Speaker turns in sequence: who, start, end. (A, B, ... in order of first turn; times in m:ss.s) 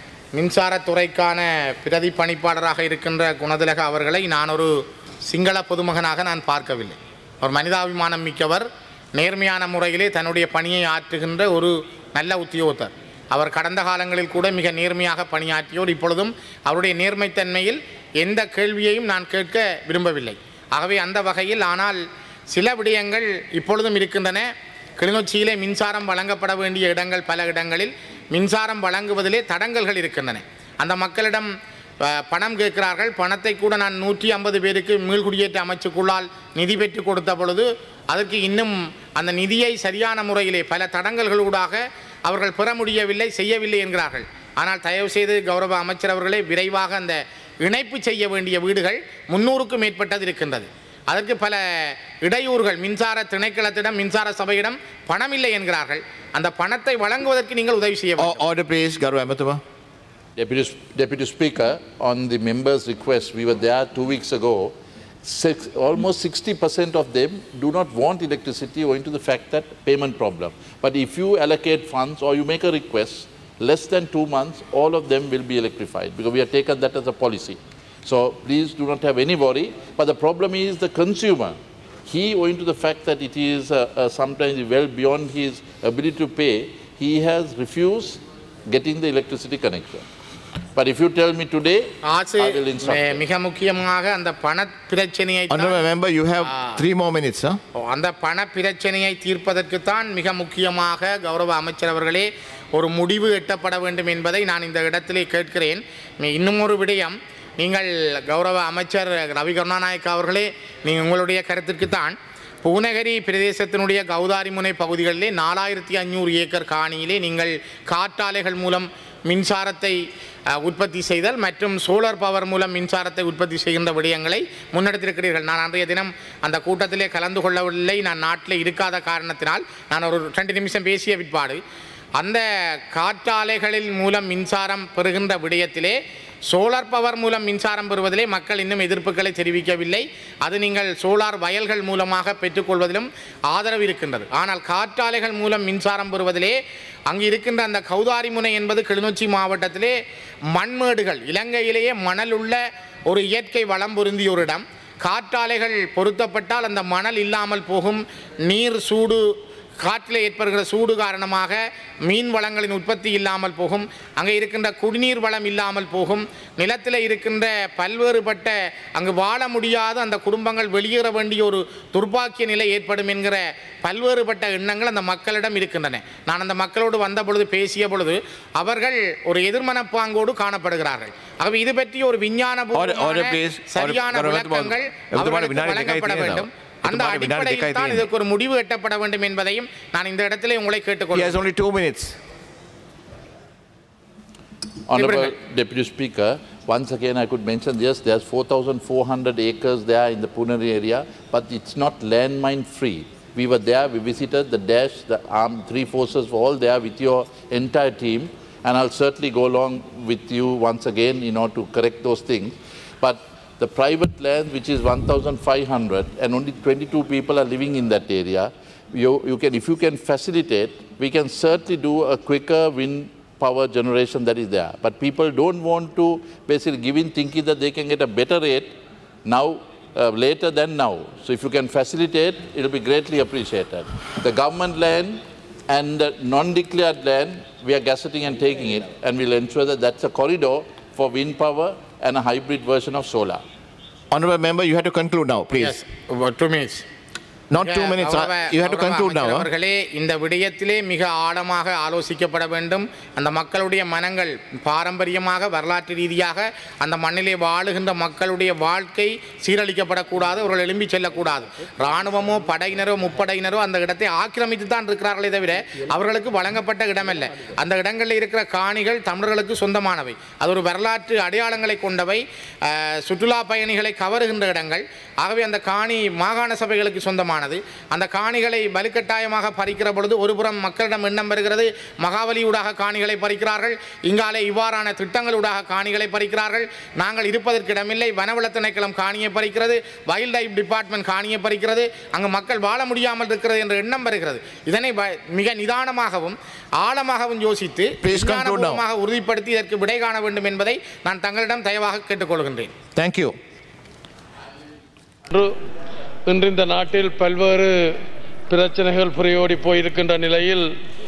0:00.3-0:04.7 A
0:05.3-0:24.5 A
0:25.0-0:31.5 A
0:32.0-0:58.4 A
0:58.2-0:59.6 B
1:00.4-1:30.0 C
1:30.7-1:31.8 C
1:32.0-1:35.8 A
1:32.4-1:33.2 C
1:35.5-1:37.6 B
1:36.4-1:36.8 A
1:37.8-2:00.0 A
2:00.5-2:11.6 A
2:12.2-2:16.0 A
2:16.5-2:26.6 A
2:27.1-2:29.9 A
2:30.5-2:39.2 A
2:39.8-3:11.4 A
3:02.7-3:08.0 B
3:11.1-3:12.1 B
3:14.9-3:48.7 C
3:14.9-3:15.3 A
3:49.3-3:55.2 C
3:55.7-4:03.4 C
4:04.1-4:05.8 B
4:05.6-4:06.8 A
4:07.5-4:09.5 B
4:07.6-5:02.7 A
4:58.0-4:58.8 B
5:02.9-5:03.3 B
5:05.3-5:05.5 D
5:06.2-5:07.9 D
5:08.5-5:10.7 D